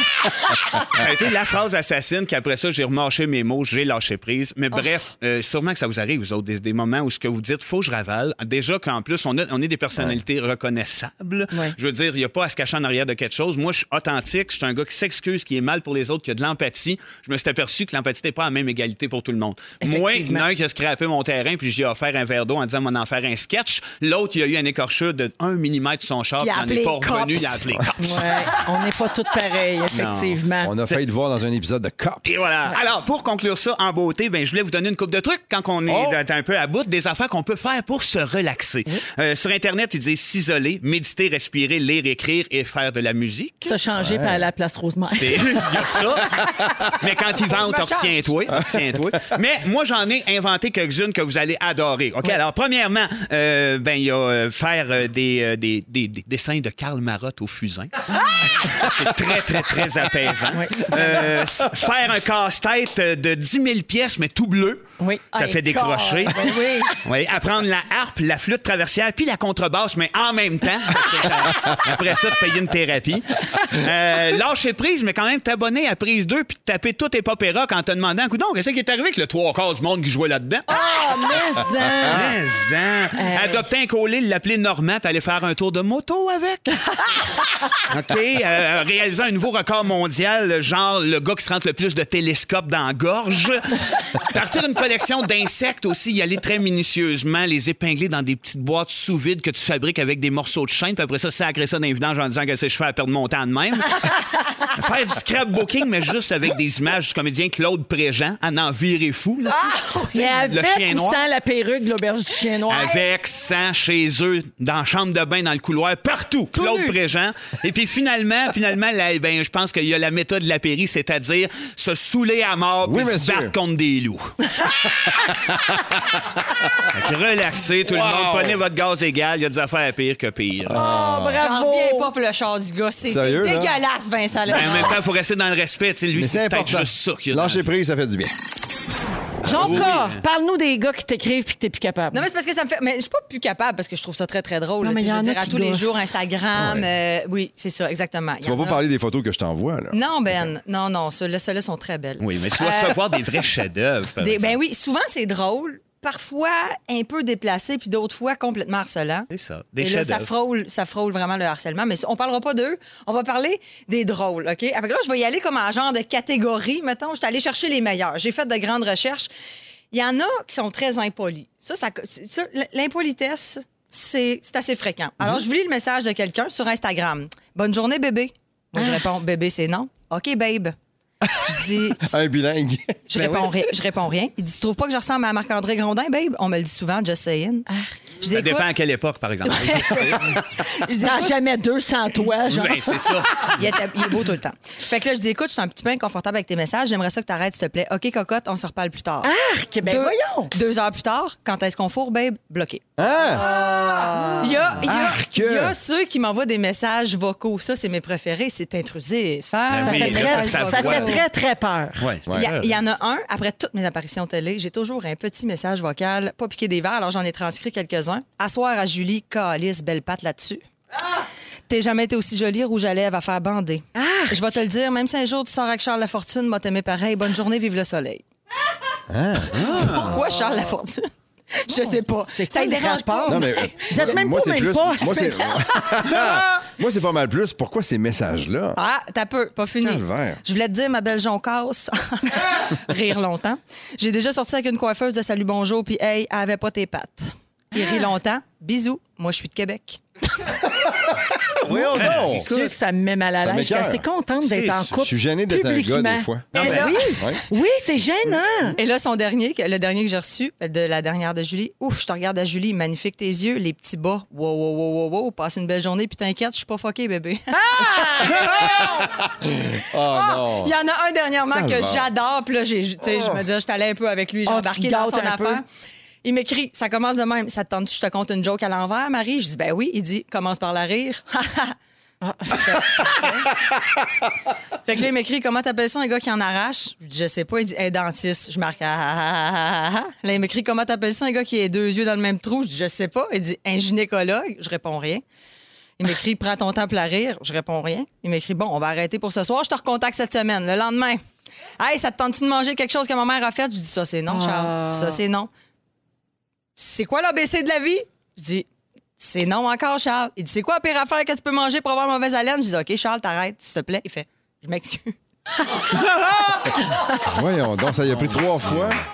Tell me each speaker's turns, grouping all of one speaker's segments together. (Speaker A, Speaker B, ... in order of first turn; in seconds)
Speaker A: 0.3-28.2, 29.9-30.4, 32.2-43.8, 45.1-80.7, 82.0-86.8, 87.9-104.1, 104.7-111.2, 112.7-124.3, 126.9-130.8, 134.5-137.7, 139.4-140.2, 152.2-154.6, 159.3-160.3, 188.3-190.4, 192.5-193.5, 209.7-211.2, 212.0-212.8, 229.5-230.1, 252.0-252.5, 254.4-255.0, 256.5-256.9, 318.2-318.9
Speaker B: 19.8-20.4, 28.0-30.7, 43.6-46.0, 60.5-61.2, 66.4-66.9, 80.7-82.2, 83.2-83.6, 110.1-113.0, 130.8-132.1, 139.4-142.2, 144.8-146.0, 178.8-179.1, 191.0-193.5, 199.2-200.5, 203.9-204.5, 209.8-212.1, 223.9-224.4, 231.7-235.5, 247.7-248.1, 251.7-258.8, 267.5-269.0, 274.4-275.6, 282.2-283.4, 304.3-305.2
Speaker C: 26.4-28.4, 47.4-48.3, 65.3-66.9, 80.8-81.3, 109.5-110.4, 116.5-116.9, 131.4-134.9, 142.1-148.8, 149.9-153.0, 154.2-169.3, 169.9-180.7, 181.4-182.2, 183.1-187.7, 188.2-188.7, 189.4-191.3, 193.4-199.3, 199.8-202.8, 204.4-211.2, 212.3-220.6, 221.7-228.2, 229.6-234.0, 235.6-236.4, 238.8-250.0, 256.5-257.3, 258.8-269.1, 270.0-275.6, 276.2-281.8, 282.6-283.4, 284.8-295.2, 296.0-301.2, 301.8-305.5, 306.8-308.7, 309.2-315.1
Speaker D: 30.6-32.4, 35.9-36.2, 44.0-44.4, 122.8-123.5, 125.1-126.9, 127.8-128.6, 130.6-131.4, 133.0-133.8, 136.1-138.3, 139.5-140.0, 146.5-146.9, 148.4-150.5, 181.3-183.7, 203.0-203.5, 204.8-205.8, 229.1-230.2, 233.3-238.8, 239.8-240.4, 251.5-252.7, 253.4-254.0, 255.0-256.6, 257.2-257.4, 269.4-270.7, 271.5-272.1, 273.1-273.4, 317.2-319.0